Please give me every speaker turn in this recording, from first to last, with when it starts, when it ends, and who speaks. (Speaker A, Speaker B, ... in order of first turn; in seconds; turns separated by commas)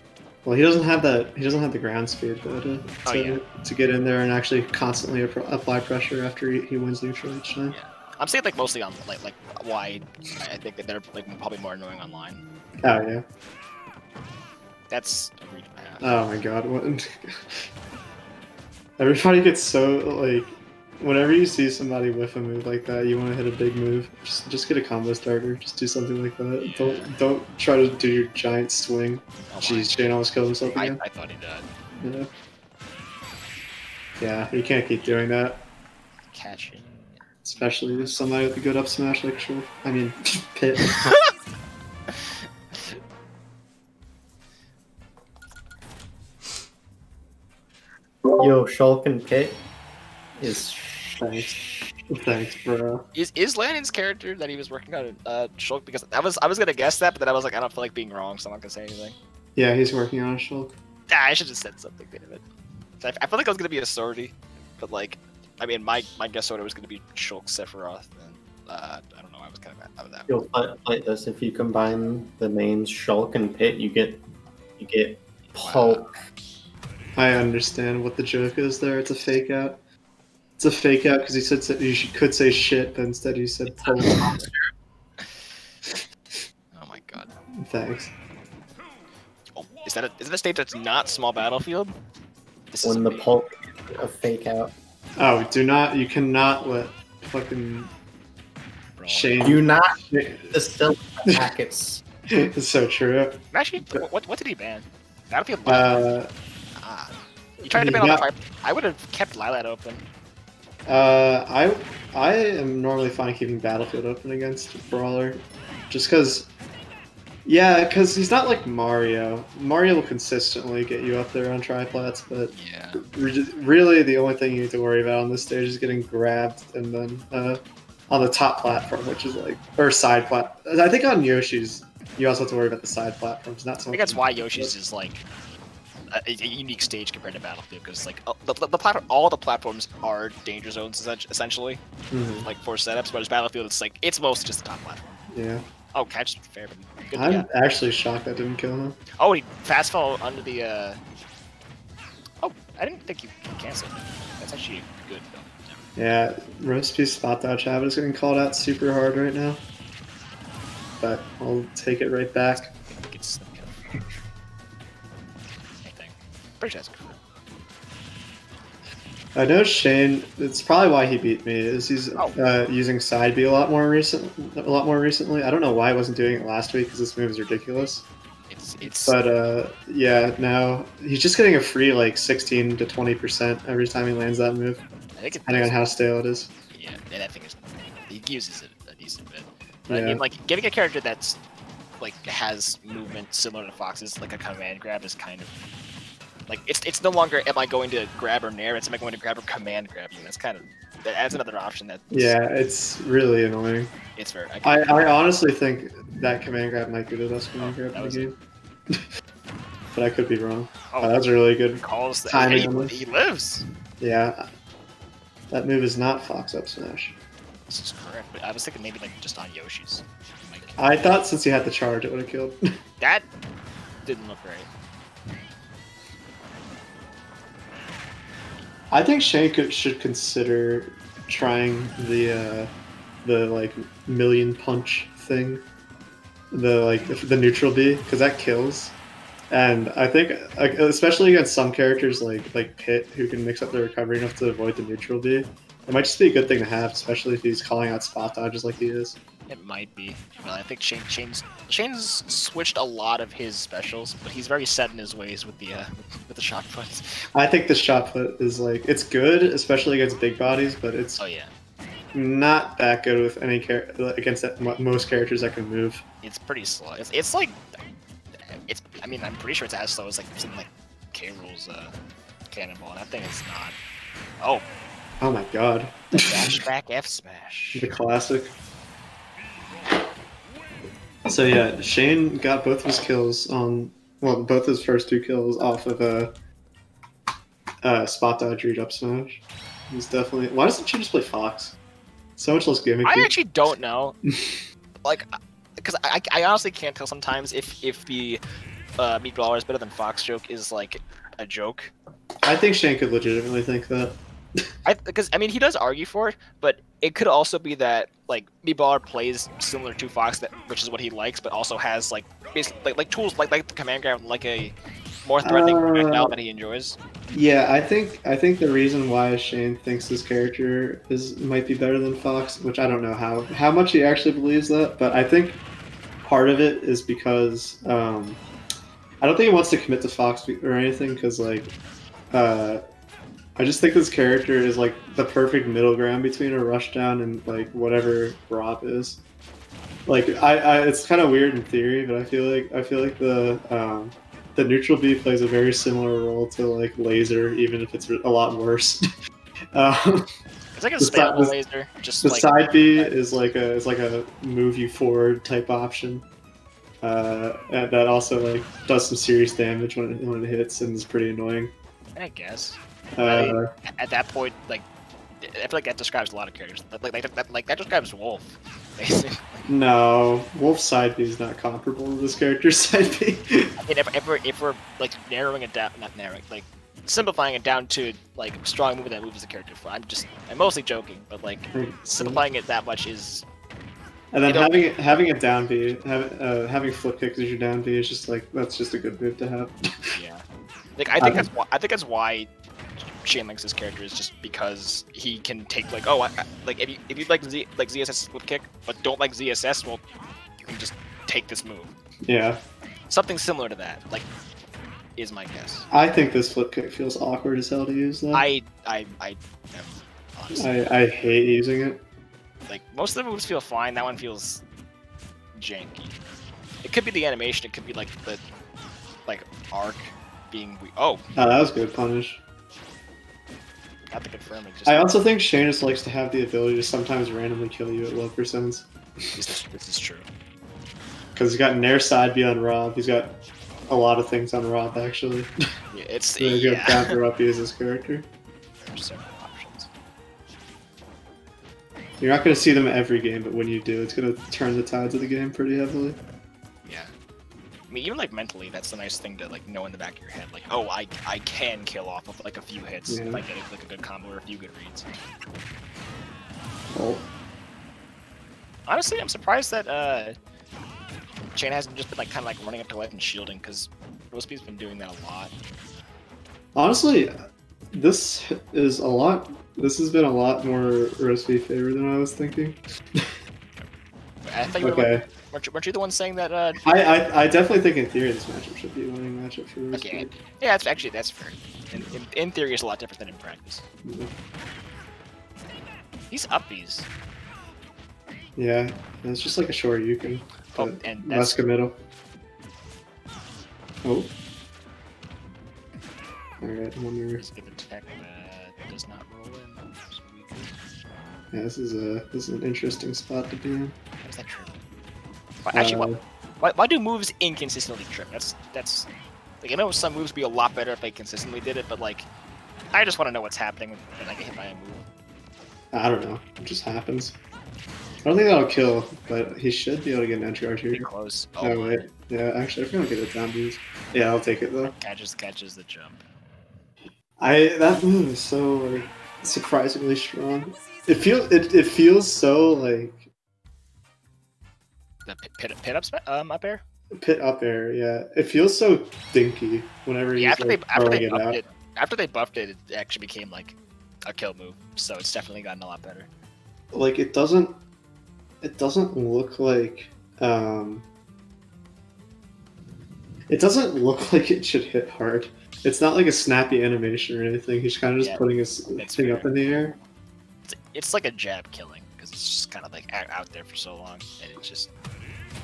Speaker A: 0.4-7.8, Speaker B: 3.0-3.4, Speaker B: 7.7-12.4, Speaker A: 12.8-13.2, Speaker B: 14.9-16.1, Speaker A: 16.0-17.7, Speaker A: 19.0-31.0, Speaker B: 26.6-27.1, Speaker B: 29.5-30.0, Speaker B: 30.7-31.7, Speaker A: 32.0-32.3, Speaker A: 34.2-35.6, Speaker B: 36.3-38.2, Speaker A: 37.4-41.1, Speaker C: 48.4-49.6, Speaker C: 50.4-51.7, Speaker A: 51.2-51.5, Speaker A: 52.1-53.0, Speaker B: 53.1-59.2, Speaker A: 59.5-60.7, Speaker B: 61.1-62.4, Speaker B: 63.0-70.4, Speaker C: 70.3-74.2, Speaker C: 74.8-76.2, Speaker B: 75.5-76.1, Speaker A: 77.2-79.8, Speaker A: 80.6-84.2, Speaker C: 84.0-84.5, Speaker B: 84.0-84.5, Speaker B: 86.7-87.3, Speaker A: 87.6-88.1, Speaker B: 89.5-92.0, Speaker B: 92.7-93.3, Speaker C: 92.8-94.7, Speaker A: 95.2-97.9, Speaker B: 99.0-99.4, Speaker A: 99.1-100.5, Speaker C: 99.4-100.0, Speaker C: 100.5-102.0, Speaker A: 102.3-104.1, Speaker B: 103.5-106.1, Speaker A: 105.7-106.3, Speaker B: 106.8-110.0, Speaker A: 107.7-108.3, Speaker A: 110.9-116.5, Speaker A: 117.5-134.7, Speaker B: 122.5-123.0, Speaker B: 133.9-135.2, Speaker B: 136.1-141.8, Speaker A: 142.1-142.5, Speaker B: 142.4-145.2, Speaker A: 145.3-145.6, Speaker B: 145.9-147.5, Speaker A: 147.1-149.0, Speaker B: 149.2-151.0, Speaker B: 152.4-155.8, Speaker A: 155.9-159.6, Speaker A: 161.0-162.7, Speaker B: 162.5-163.8, Speaker B: 165.7-167.2, Speaker A: 169.3-178.1, Speaker B: 178.5-179.2, Speaker A: 178.8-184.8, Speaker B: 185.2-185.8, Speaker A: 185.4-186.5, Speaker B: 186.7-191.4, Speaker A: 189.9-190.2, Speaker B: 192.0-195.5, Speaker B: 196.5-202.4, Speaker A: 202.1-203.9, Speaker B: 204.2-204.9, Speaker A: 204.6-208.3, Speaker B: 207.6-208.3, Speaker A: 209.9-213.0, Speaker B: 210.9-211.2, Speaker B: 211.8-213.6, Speaker A: 214.0-214.4, Speaker A: 215.5-217.2, Speaker B: 217.7-221.0, Speaker A: 220.8-222.6, Speaker B: 223.0-223.3, Speaker B: 224.0-224.7, Speaker A: 228.9-232.7, Speaker A: 233.2-235.6, Speaker A: 236.5-238.9, Speaker A: 239.5-249.2, Speaker B: 249.5-257.2, Speaker A: 257.3-261.2, Speaker B: 261.2-261.5, Speaker A: 262.1-266.0, Speaker B: 266.2-267.6, Speaker B: 268.6-271.9, Speaker B: 272.5-273.8, Speaker A: 275.2-276.6, Speaker B: 276.1-277.9, Speaker A: 277.7-278.5, Speaker A: 281.3-286.3, Speaker A: 287.8-291.8, Speaker A: 292.4-293.3, Speaker B: 293.0-294.1, Speaker A: 294.2-294.6, Speaker B: 295.0-298.4, Speaker B: 299.0-301.9, Speaker A: 302.4-304.6, Speaker B: 304.8-317.0, Speaker A: 315.4-316.3, Speaker A: 317.3-325.6, Speaker A: 326.2-328.4, Speaker A: 329.2-331.7, Speaker A: 332.3-332.8, Speaker A: 333.6-339.2, Speaker A: 340.1-349.0, Speaker A: 349.7-350.3, Speaker B: 350.7-353.4, Speaker A: 351.0-351.6, Speaker A: 352.2-356.2, Speaker A: 357.0-361.7, Speaker B: 362.1-364.9, Speaker A: 363.1-363.7, Speaker B: 365.4-369.7, Speaker A: 369.7-373.7, Speaker B: 373.8-383.4, Speaker A: 381.7-382.4, Speaker A: 384.3-390.2, Speaker B: 384.4-385.2, Speaker B: 390.1-390.4, Speaker B: 391.0-392.5, Speaker A: 391.2-391.5, Speaker B: 393.2-400.0, Speaker B: 400.6-402.0, Speaker A: 402.2-402.6, Speaker B: 403.1-404.3, Speaker B: 405.2-405.9, Speaker A: 405.9-408.4, Speaker B: 408.3-410.9, Speaker A: 410.6-412.0, Speaker B: 412.7-414.6, Speaker B: 415.5-416.1, Speaker B: 416.8-418.4, Speaker B: 419.2-421.2, Speaker A: 421.4-422.4, Speaker B: 424.1-425.1, Speaker A: 424.8-429.4, Speaker B: 429.4-430.3, Speaker A: 431.3-435.5, Speaker B: 435.9-437.1, Speaker A: 436.4-438.3, Speaker B: 438.8-439.9, Speaker A: 442.2-446.2, Speaker B: 446.8-447.1, Speaker B: 447.9-455.1, Speaker A: 453.1-453.4, Speaker A: 456.9-457.2, Speaker B: 458.9-460.4, Speaker B: 461.5-465.5, Speaker A: 466.7-467.3, Speaker A: 467.9-473.3, Speaker B: 474.4-476.9, Speaker A: 474.8-475.2, Speaker A: 476.8-480.4, Speaker B: 479.9-483.8, Speaker A: 484.0-484.3, Speaker B: 486.3-487.1, Speaker A: 488.6-492.0, Speaker B: 490.7-491.6, Speaker A: 494.0-494.3, Speaker A: 496.6-497.4, Speaker B: 497.4-500.8, Speaker A: 501.5-503.9, Speaker B: 504.2-504.7, Speaker B: 505.6-509.1, Speaker A: 505.7-506.2, Speaker B: 509.6-512.3, Speaker B: 512.9-515.0, Speaker A: 515.9-517.4, Speaker A: 518.2-521.1, Speaker B: 520.9-522.1, Speaker A: 521.6-524.9, Speaker B: 524.8-526.2, Speaker A: 527.4-533.3, Speaker B: 535.2-536.8, Speaker A: 537.1-541.6, Speaker B: 540.3-546.3, Speaker A: 546.9-547.8, Speaker A: 548.6-551.0, Speaker A: 553.5-560.0, Speaker B: 558.2-559.5, Speaker B: 560.6-564.9